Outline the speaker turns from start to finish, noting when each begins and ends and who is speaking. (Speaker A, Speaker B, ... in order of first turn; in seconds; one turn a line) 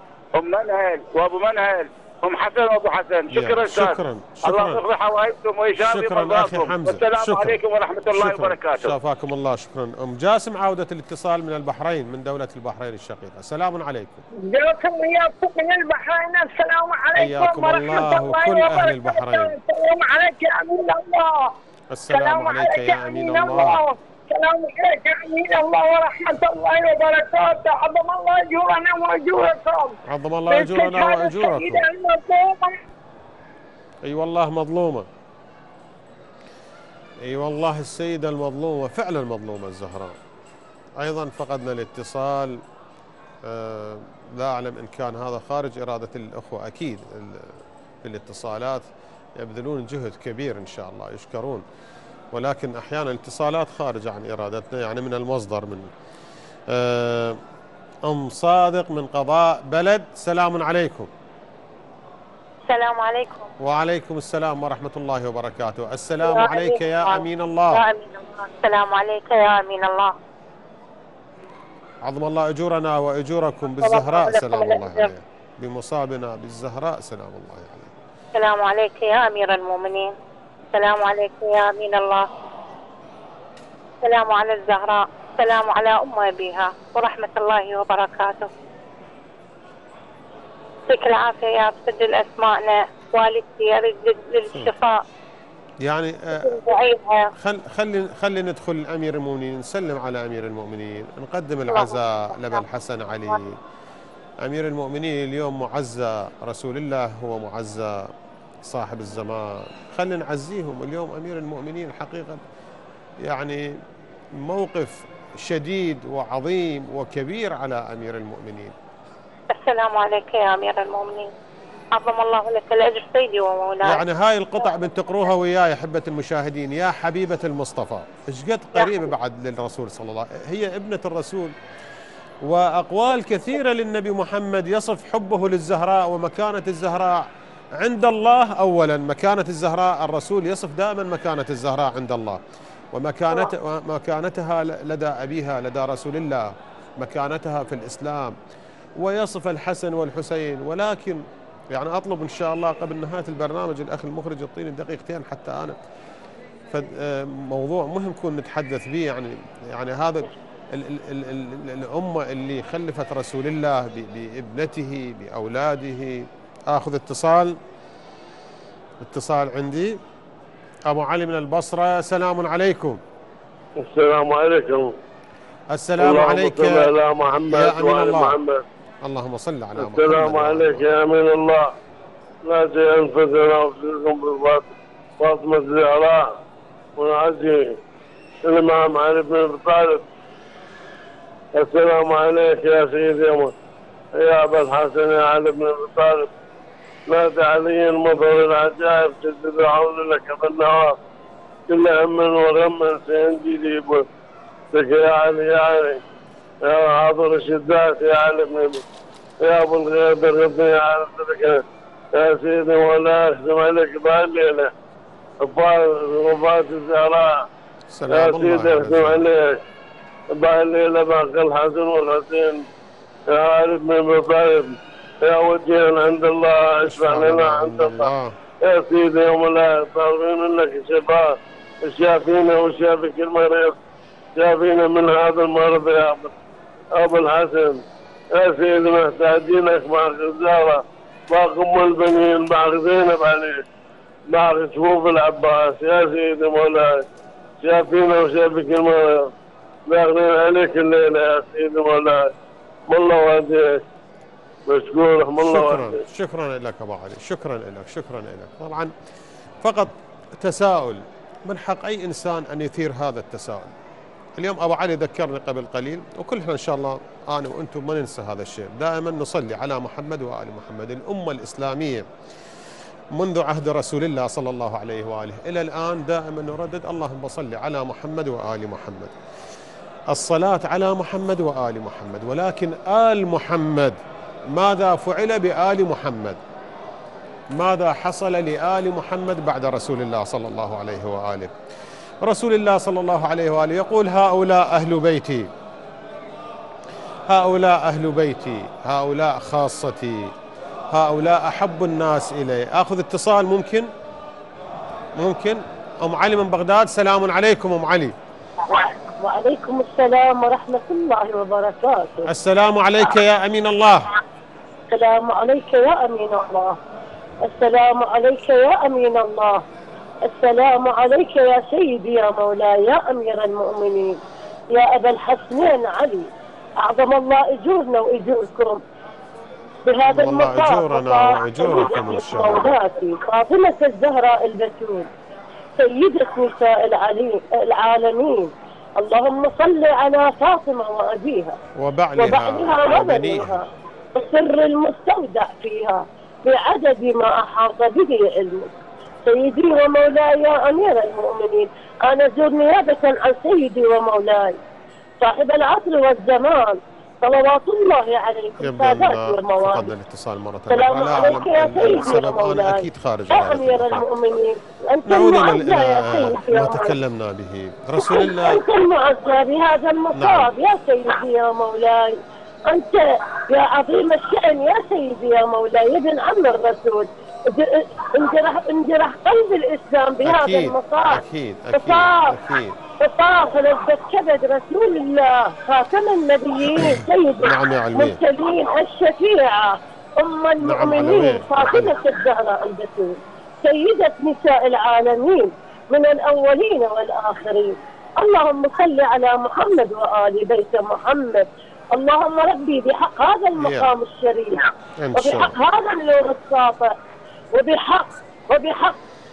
Speaker A: 0.3-8.9
Speaker B: 3.3-4.8
Speaker B: 5.8-7.6
Speaker B: 8.1-14.2
Speaker C: 15.9-16.4
Speaker C: 17.1-17.6
Speaker B: 17.1-19.6
Speaker C: 19.6-20.4
Speaker C: 20.9-21.2
Speaker B: 21.9-23.8
Speaker C: 22.2-23.7
Speaker C: 26.0-29.7
Speaker B: 30.1-31.8
Speaker C: 30.5-32.5
Speaker B: 34.0-35.1
Speaker B: 37.2-40.1
Speaker B: 41.0-42.6
Speaker B: 43.4-47.5
Speaker B: 48.0-51.6
Speaker B: 52.3-55.9
Speaker B: 56.7-57.4
Speaker B: 58.0-61.1
Speaker D: 62.7-63.5
Speaker B: 63.6-67.8
Speaker D: 66.2-70.1
Speaker B: 72.0-77.9
Speaker D: 73.8-75.1
Speaker D: 78.3-80.1
Speaker D: 80.7-82.3
Speaker D: 84.0-88.5
Speaker D: 90.9-95.0
Speaker B: 95.8-96.6
Speaker D: 96.4-97.2
Speaker B: 97.4-103.5
Speaker D: 101.7-102.7
Speaker B: 104.4-108.1
Speaker B: 108.7-112.4
Speaker B: 113.2-113.6
Speaker B: 114.4-118.7
Speaker D: 119.5-121.3
Speaker D: 121.9-124.0
Speaker B: 123.8-131.5
Speaker D: 128.7-129.1
Speaker B: 132.4-137.2
Speaker B: 137.8-142.4
Speaker B: 142.9-148.3
Speaker B: 149.0-155.8
Speaker B: 156.7-167.6
Speaker B: 169.0-170.0
Speaker B: 170.9-173.0
Speaker E: 173.8-174.9
Speaker B: 175.7-176.9
Speaker E: 176.0-178.6
Speaker B: 177.5-178.4
Speaker B: 179.0-180.9
Speaker E: 179.8-181.6
Speaker E: 182.4-186.2
Speaker E: 187.0-187.7
Speaker E: 188.4-190.0
Speaker E: 191.5-193.5
Speaker E: 194.1-196.3
Speaker E: 197.1-200.9
Speaker E: 201.7-204.0
Speaker E: 204.7-206.0
Speaker E: 206.6-208.8
Speaker E: 209.4-211.6
Speaker E: 212.1-214.7
Speaker E: 215.4-217.4
Speaker B: 217.9-219.2
Speaker E: 218.1-219.5
Speaker E: 220.3-222.7
Speaker E: 223.3-228.1
Speaker B: 226.8-228.3
Speaker E: 228.6-233.8
Speaker E: 234.3-236.3
Speaker E: 236.9-243.6
Speaker E: 244.3-247.0
Speaker E: 247.6-249.3
Speaker E: 249.9-252.2
Speaker E: 252.9-253.8
Speaker E: 254.7-256.0
Speaker B: 255.4-258.9
Speaker B: 259.6-263.7
Speaker B: 264.4-272.1
Speaker B: 273.1-279.1
Speaker B: 280.1-283.9
Speaker B: 284.5-286.4
Speaker B: 287.5-291.5
Speaker B: 292.2-295.5
Speaker B: 297.3-300.3
Speaker B: 300.9-303.9
Speaker B: 305.2-308.1
Speaker F: 308.7-312.3
Speaker B: 312.3-314.1
Speaker F: 314.9-316.8
Speaker F: 317.4-319.6
Speaker F: 320.2-324.2
Speaker F: 324.7-326.3
Speaker F: 326.8-328.8
Speaker F: 329.8-335.1
Speaker B: 330.1-332.7
Speaker F: 335.8-341.6
Speaker B: 341.8-343.6
Speaker F: 342.1-348.7
Speaker F: 349.2-354.6
Speaker F: 355.2-359.9
Speaker B: 358.6-364.0
Speaker F: 360.7-366.9
Speaker B: 365.1-368.6
Speaker F: 368.0-372.2
Speaker B: 370.1-370.5
Speaker F: 372.7-381.2
Speaker B: 380.2-382.8
Speaker F: 381.7-382.4
Speaker F: 383.0-406.9
Speaker B: 386.8-388.2
Speaker B: 390.6-391.9
Speaker B: 403.6-403.9
Speaker B: 405.0-405.5
Speaker F: 407.5-409.0